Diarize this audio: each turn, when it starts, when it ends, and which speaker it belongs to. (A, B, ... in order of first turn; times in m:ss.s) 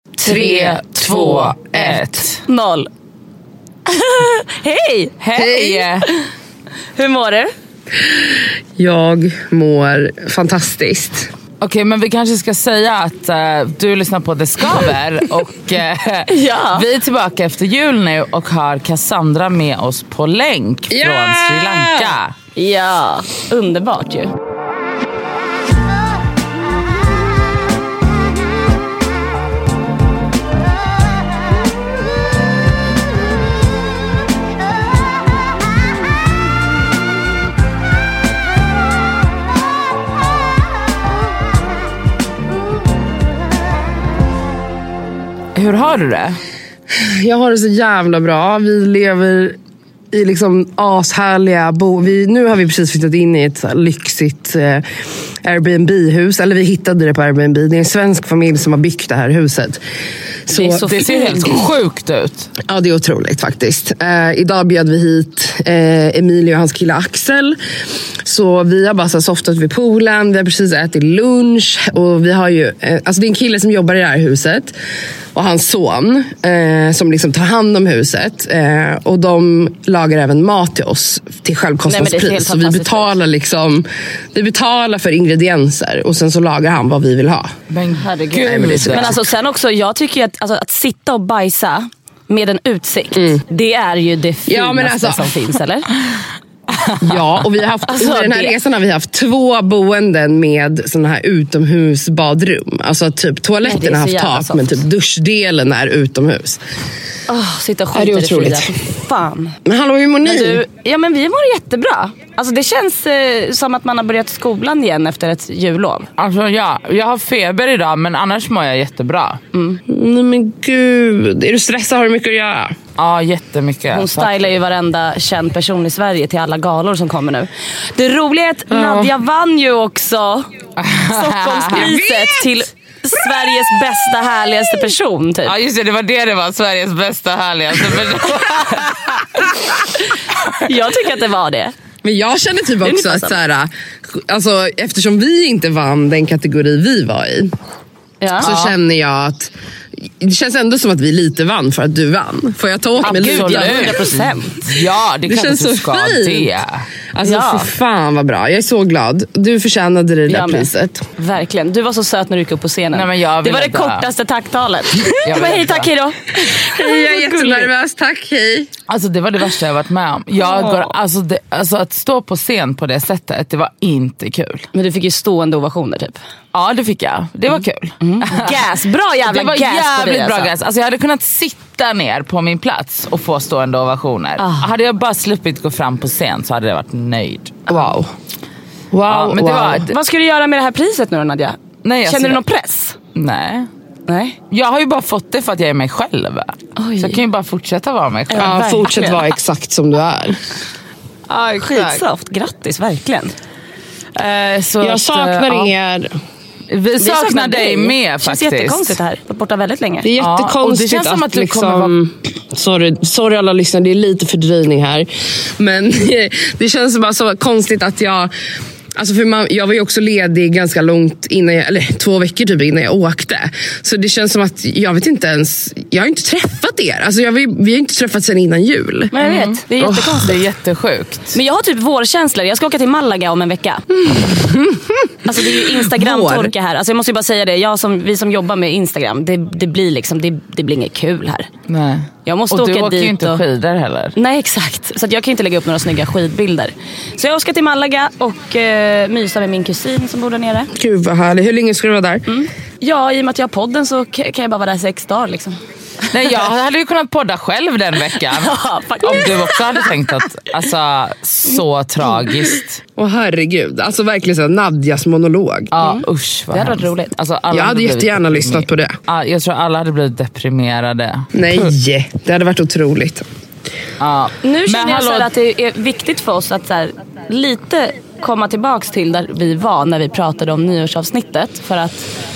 0:00.2-0:02.0 A
0:00.2-0:02.4 B
0:01.9-0:02.9 C
0:03.9-0:06.2 C
0:05.2-0:06.1 B
0:07.0-0:07.5 C
0:08.8-0:11.3 A
0:11.6-0:22.3 B
0:16.3-0:16.8 C
0:20.9-0:22.1 A
0:22.6-0:24.3 C
0:45.5-0:46.4 B
0:46.9-0:49.6 A
0:50.1-0:54.8 A
0:55.4-0:59.8 A
1:00.4-1:00.9 A
1:00.5-1:01.5 C
1:00.7-1:02.5 B
1:02.7-1:07.6 A
1:08.2-1:14.7 A
1:15.3-1:27.5 A
1:21.8-1:23.1 C
1:27.7-1:29.2 B
1:28.0-1:35.9 C
1:28.4-1:29.2 A
1:33.2-1:33.4 A
1:34.5-1:35.4 A
1:37.0-1:46.6 A
1:37.9-1:38.6 C
1:43.6-1:44.8 C
1:47.3-1:49.6 C
1:47.9-1:48.8 A
1:49.6-1:50.6 A
1:50.2-1:56.1 C
1:56.2-1:59.4 B
1:59.5-1:59.8 C
1:59.9-2:02.7 A
2:03.0-2:04.5 B
2:03.9-2:10.4 C
2:08.7-2:09.1 A
2:10.8-2:11.9 B
2:11.1-2:15.5 C
2:11.7-2:12.5 A
2:15.4-2:19.3 B
2:20.6-2:21.7 C
2:22.0-2:27.5 A
2:22.8-2:23.3 C
2:28.2-2:28.5 C
2:28.4-2:29.5 A
2:28.4-2:28.7 B
2:30.2-2:34.2 A
2:33.0-2:34.6 C
2:33.0-2:36.8 B
2:35.3-2:36.5 A
2:37.1-2:41.0 A
2:37.2-2:37.7 C
2:40.3-2:47.7 C
2:42.9-2:44.0 B
2:45.2-2:45.9 B
2:46.6-2:48.7 A
2:48.9-2:54.7 B
2:50.4-2:50.9 C
2:54.7-2:56.2 C
2:56.5-2:58.6 B
2:58.0-3:00.5 C
2:59.3-3:07.6 B
3:04.4-3:04.7 C
3:07.7-3:08.1 A
3:08.9-3:09.9 A
3:09.1-3:09.9 B
3:09.9-3:13.0 C
3:11.8-3:12.4 B
3:13.1-3:13.7 B
3:14.1-3:14.4 C
3:14.5-3:18.6 B
3:16.8-3:17.2 C
3:18.3-3:19.3 C
3:18.4-3:20.4 A
3:21.3-3:22.0 B
3:21.6-3:23.3 C
3:24.1-3:25.7 B
3:24.8-3:26.1 A
3:26.7-3:29.0 B
3:27.0-3:30.1 C
3:30.0-3:38.3 A
3:30.2-3:31.9 B
3:39.0-3:49.1 A
3:49.1-3:50.3 C
3:49.2-3:49.6 B
3:49.8-3:50.3 A
3:50.2-3:51.3 B
3:51.3-3:53.8 C
3:53.9-3:56.5 A
3:55.2-4:01.5 C
4:01.7-4:04.1 B
4:02.2-4:03.4 C
4:04.2-4:10.7 C
4:10.7-4:12.3 A
4:12.3-4:15.6 C
4:16.1-4:22.8 B
4:18.2-4:19.9 C
4:23.0-4:25.7 A
4:25.7-4:31.3 B
4:25.8-4:27.1 C
4:27.5-4:29.0 A
4:31.3-4:33.2 A
4:34.0-4:35.3 B
4:34.4-4:42.1 C